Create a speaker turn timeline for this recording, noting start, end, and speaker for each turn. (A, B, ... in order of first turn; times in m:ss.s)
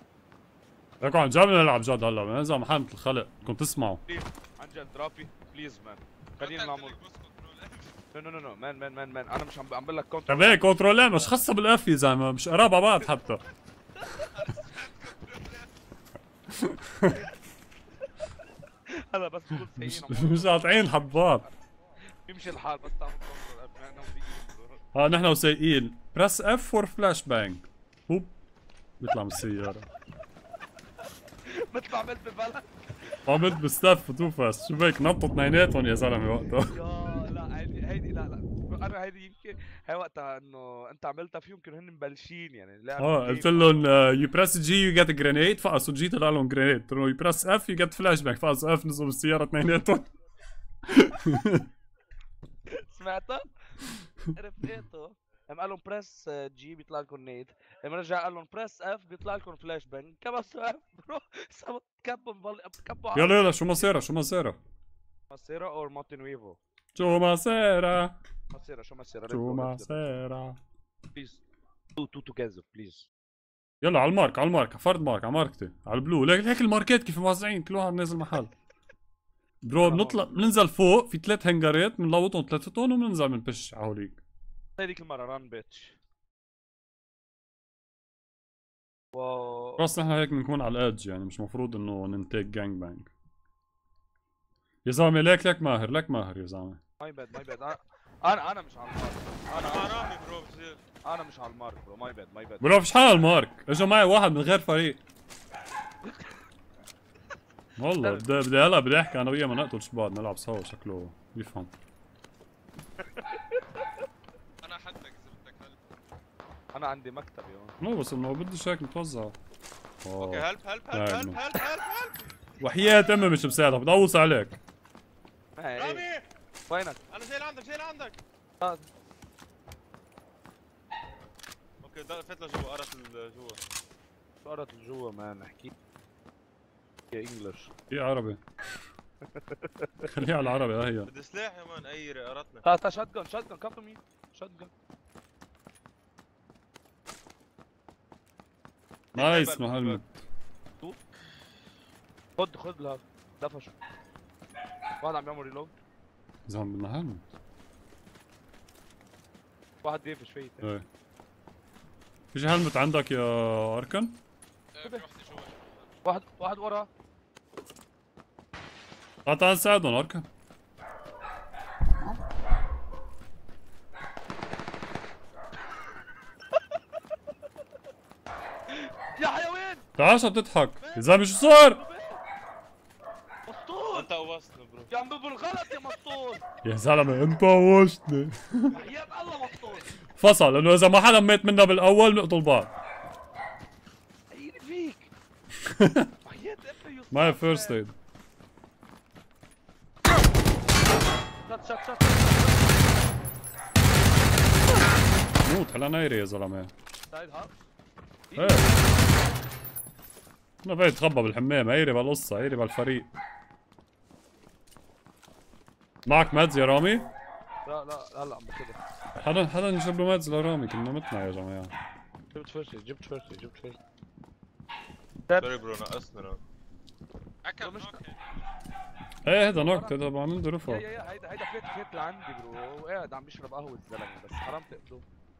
0:01.0-0:04.0 A
0:04.1-0:07.0 B
0:06.4-0:08.0 C
0:08.1-0:11.0 B
0:10.3-0:13.4 A
0:14.0-0:14.3 B
0:14.3-0:15.7 C
0:16.5-0:17.2 A
0:18.9-0:21.5 B
0:19.8-0:21.4 A
0:22.3-0:24.8 B
0:24.9-0:28.4 A
0:29.0-0:29.9 A
0:31.4-0:33.2 B
0:33.3-0:36.8 A
0:36.7-0:43.9 B
0:43.0-0:50.1 A
0:50.9-0:51.7 A
0:52.7-0:53.5 B
0:54.3-1:03.9 B
1:03.1-1:04.6 A
1:05.3-1:06.6 B
1:07.0-1:08.2 A
1:08.5-1:10.0 B
1:09.3-1:10.6 A
1:11.2-1:11.4 B
1:12.0-1:13.1 B
1:13.8-1:18.5 A
1:19.6-1:24.2 A
1:19.8-1:20.4 B
1:24.8-1:26.0 B
1:29.1-1:29.8 B
1:29.8-1:33.1 A
1:34.8-1:36.8 A
1:37.0-1:39.9 B
1:39.5-1:40.8 D
1:41.0-1:42.8 B
1:42.6-1:45.0 A
1:46.0-1:46.3 B
1:47.8-1:51.7 A
1:54.6-1:55.8 C
1:56.7-1:57.8 B
1:57.8-1:59.4 A
2:00.0-2:01.4 A
2:00.2-2:02.2 D
2:02.6-2:04.6 A
2:05.6-2:06.1 B
2:05.8-2:06.2 D
2:06.7-2:07.0 B
2:07.1-2:08.2 D
2:11.8-2:13.6 D
2:14.4-2:15.7 B
2:17.1-2:17.7 B
2:17.9-2:18.8 A
2:19.3-2:20.1 B
2:20.1-2:21.1 A
2:21.0-2:22.6 D
2:22.6-2:24.7 B
2:29.1-2:30.0 B
2:29.2-2:30.2 A
2:32.4-2:33.8 B
2:35.0-2:35.7 B
2:36.5-2:37.3 A
2:39.8-2:40.7 B
2:40.6-2:40.9 A
2:42.3-2:44.2 A
2:44.8-2:45.9 C
2:46.0-2:46.9 B
2:49.2-2:50.3 A
2:58.8-2:59.9 B
3:00.0-3:01.8 A
3:00.8-3:02.2 B
3:03.5-3:04.1 B
3:03.9-3:04.9 D
3:04.9-3:06.4 B
3:06.6-3:08.8 A
3:08.7-3:09.9 B
3:10.2-3:12.7 A
3:14.3-3:15.1 B
3:15.6-3:16.1 A
3:16.2-3:17.8 B
3:17.1-3:18.0 A
3:21.5-3:22.7 B
3:25.4-3:26.7 A
3:27.1-3:27.5 B
3:28.3-3:29.0 B
3:28.4-3:28.7 A
3:30.6-3:33.1 A
3:36.0-3:37.1 A
3:37.7-3:38.8 B
3:39.2-3:41.7 A
3:42.3-3:43.8 B
3:45.3-3:45.5 B
3:45.4-3:46.4 D
3:47.4-3:48.4 C
3:47.6-3:48.0 B
3:49.2-3:50.8 A
3:49.5-3:50.0 B
3:50.7-3:55.0 B